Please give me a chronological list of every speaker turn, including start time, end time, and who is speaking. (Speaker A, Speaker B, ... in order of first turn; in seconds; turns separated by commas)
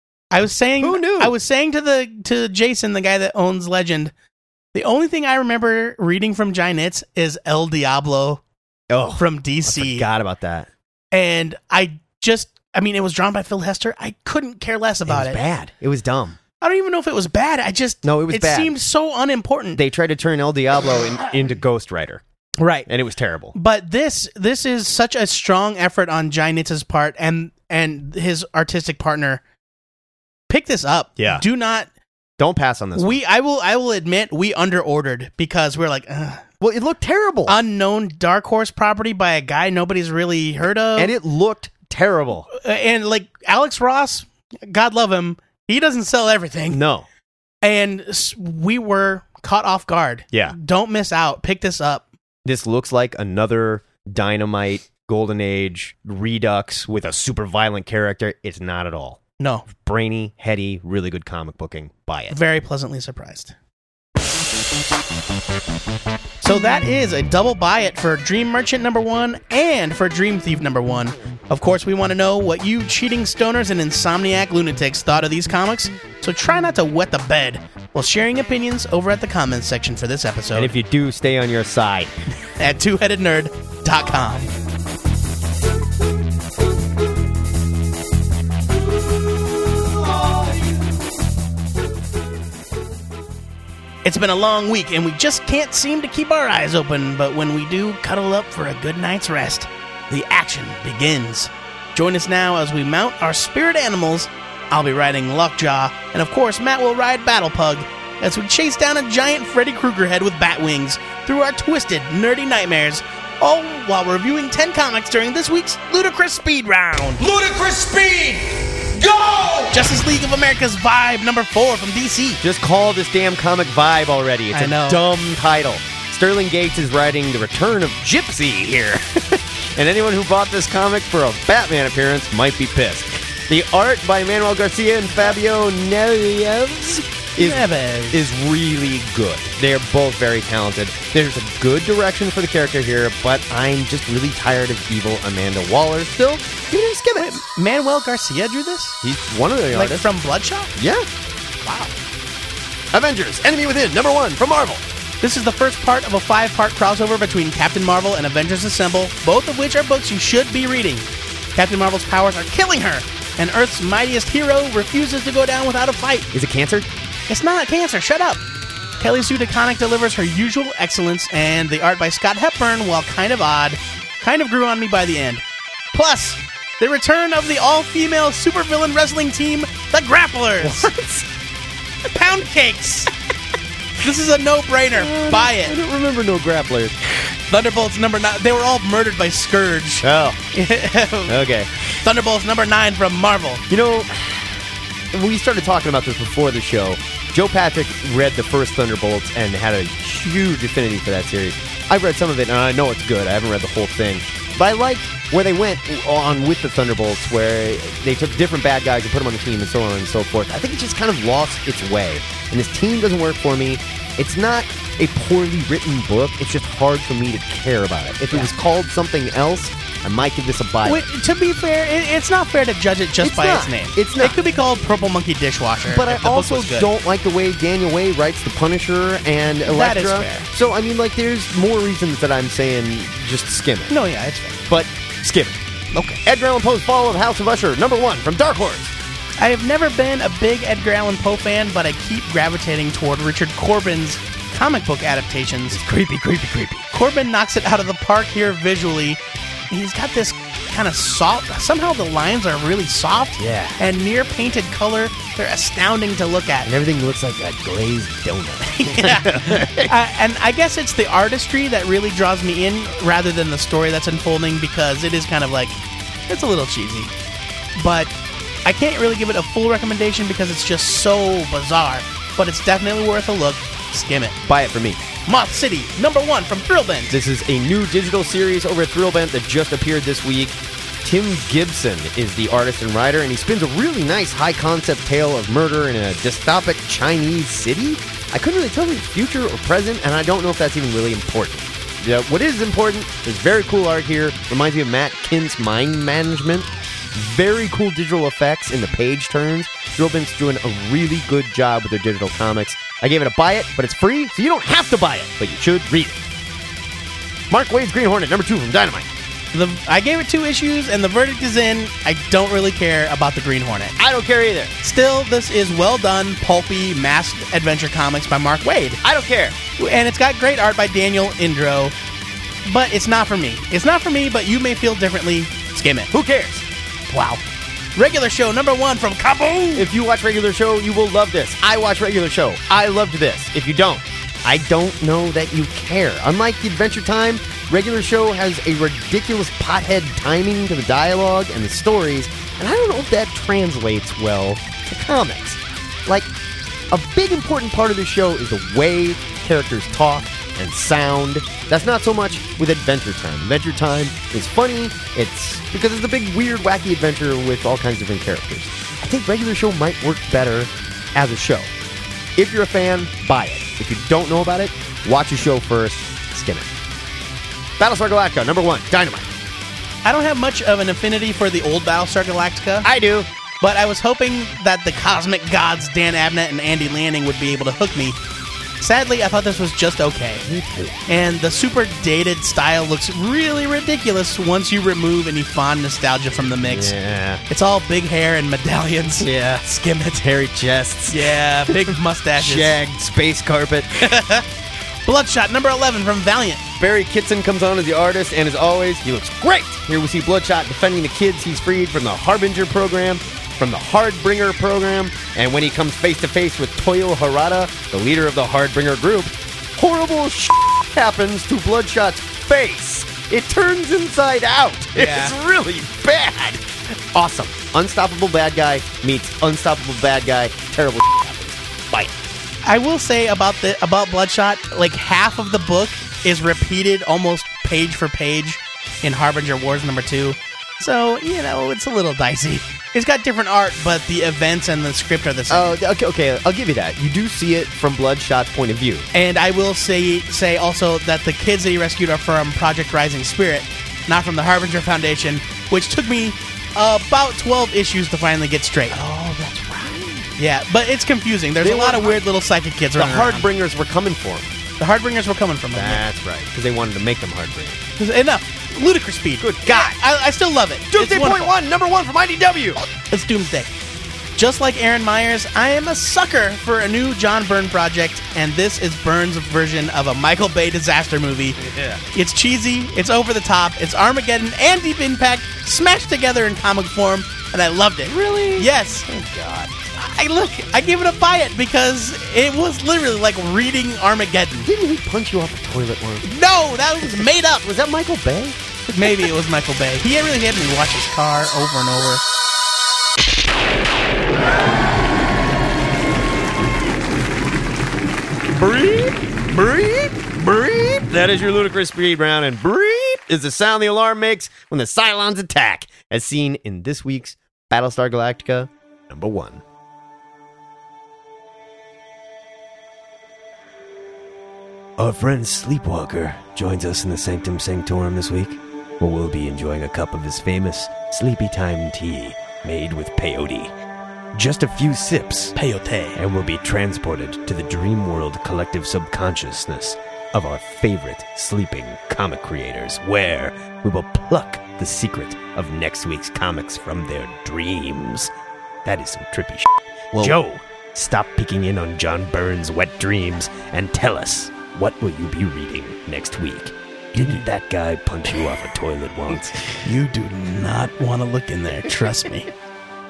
Speaker A: 0.3-4.1, Speaker B: 0.8-1.3, Speaker A: 4.7-8.4, Speaker B: 8.9-10.7, Speaker A: 9.2-10.1, Speaker A: 11.1-15.4, Speaker B: 15.1-16.4, Speaker A: 16.6-19.8, Speaker B: 18.0-18.8, Speaker B: 19.8-22.2, Speaker A: 22.6-22.9, Speaker B: 22.9-23.6, Speaker A: 23.5-29.4, Speaker A: 30.5-31.9, Speaker B: 31.2-31.4, Speaker B: 32.4-33.2, Speaker A: 33.0-36.5, Speaker B: 36.6-37.6, Speaker A: 37.5-41.1, Speaker B: 41.0-42.5, Speaker A: 42.5-46.8, Speaker B: 46.7-47.1, Speaker A: 47.6-52.1, Speaker B: 52.5-59.2, Speaker A: 59.4-59.7, Speaker B: 59.7-62.4, Speaker A: 62.3-63.5, Speaker A: 66.4-80.7, Speaker B: 80.5-82.1, Speaker A: 82.6-84.5, Speaker A: 94.0-117.2, Speaker C: 117.2-119.7, Speaker A: 119.7-122.4, Speaker B: 122.4-147.4, Speaker A: 124.5-125.0, Speaker A: 137.4-138.3, Speaker A: 147.2-149.0, Speaker B: 149.0-150.1, Speaker A: 149.7-150.7, Speaker B: 150.8-151.1, Speaker A: 151.6-151.9, Speaker B: 152.9-154.8, Speaker A: 155.2-166.3, Speaker B: 166.3-166.9, Speaker A: 167.3-168.4, Speaker A: 169.0-180.9, Speaker B: 180.6-181.3, Speaker A: 182.1-183.1, Speaker A: 184.0-185.8, Speaker B: 184.9-187.0, Speaker A: 187.5-191.4, Speaker B: 190.0-190.4, Speaker B: 191.3-191.7, Speaker A: 192.0-193.7, Speaker B: 193.7-194.4, Speaker B: 195.1-221.0, Speaker A: 220.8-226.9, Speaker B: 223.2-224.4, Speaker B: 225.9-233.9, Speaker A: 229.7-230.5, Speaker A: 233.9-234.6, Speaker B: 234.7-238.9, Speaker A: 239.4-245.8, Speaker B: 245.7-246.9, Speaker A: 246.9-249.2, Speaker A: 249.7-256.7, Speaker B: 253.4-253.8, Speaker B: 256.6-259.9, Speaker A: 258.7-265.8, Speaker A: 266.3-267.1, Speaker A: 267.8-268.1, Speaker A: 268.6-274.4, Speaker B: 274.4-275.0, Speaker A: 275.2-277.2, Speaker B: 277.1-306.2, Speaker B: 307.5-309.1, Speaker A: 309.5-314.0, Speaker B: 314.0-314.8, Speaker A: 314.8-319.0, Speaker B: 319.0-319.6, Speaker A: 319.8-321.9, Speaker A: 322.7-326.1, Speaker B: 326.1-326.6, Speaker A: 327.1-327.4, Speaker A: 328.0-329.9, Speaker B: 329.8-346.3, Speaker B: 346.9-361.7, Speaker B: 362.4-366.7, Speaker B: 367.8-369.3, Speaker A: 370.1-372.9, Speaker B: 372.8-373.3, Speaker A: 373.6-378.2, Speaker A: 378.8-380.5, Speaker B: 380.4-381.0, Speaker A: 381.1-386.9, Speaker B: 386.6-387.4, Speaker A: 387.5-390.2, Speaker B: 389.2-389.7, Speaker B: 390.2-394.0, Speaker A: 391.1-392.8, Speaker A: 394.0-394.5, Speaker A: 395.1-396.6, Speaker B: 396.8-422.2, Speaker A: 415.0-415.4, Speaker A: 422.6-435.8, Speaker B: 435.5-439.1, Speaker A: 439.1-449.0, Speaker B: 448.9-450.4, Speaker A: 450.4-453.5, Speaker B: 451.6-452.2, Speaker B: 452.9-454.6, Speaker A: 454.8-456.1, Speaker B: 455.7-457.8, Speaker A: 458.0-461.5, Speaker B: 459.4-460.0, Speaker B: 460.9-462.8, Speaker A: 463.1-463.7, Speaker A: 464.4-471.6, Speaker B: 471.6-472.0, Speaker A: 472.1-479.1, Speaker B: 478.1-479.8, Speaker A: 479.9-484.7, Speaker B: 484.6-486.3, Speaker A: 486.2-487.6, Speaker B: 487.2-489.3, Speaker A: 488.9-492.2, Speaker B: 498.5-509.6, Speaker B: 515.0-523.7, Speaker B: 524.3-525.6, Speaker A: 525.6-526.2, Speaker B: 526.1-538.3, Speaker B: 538.9-549.7, Speaker A: 547.2-547.4, Speaker A: 549.8-552.5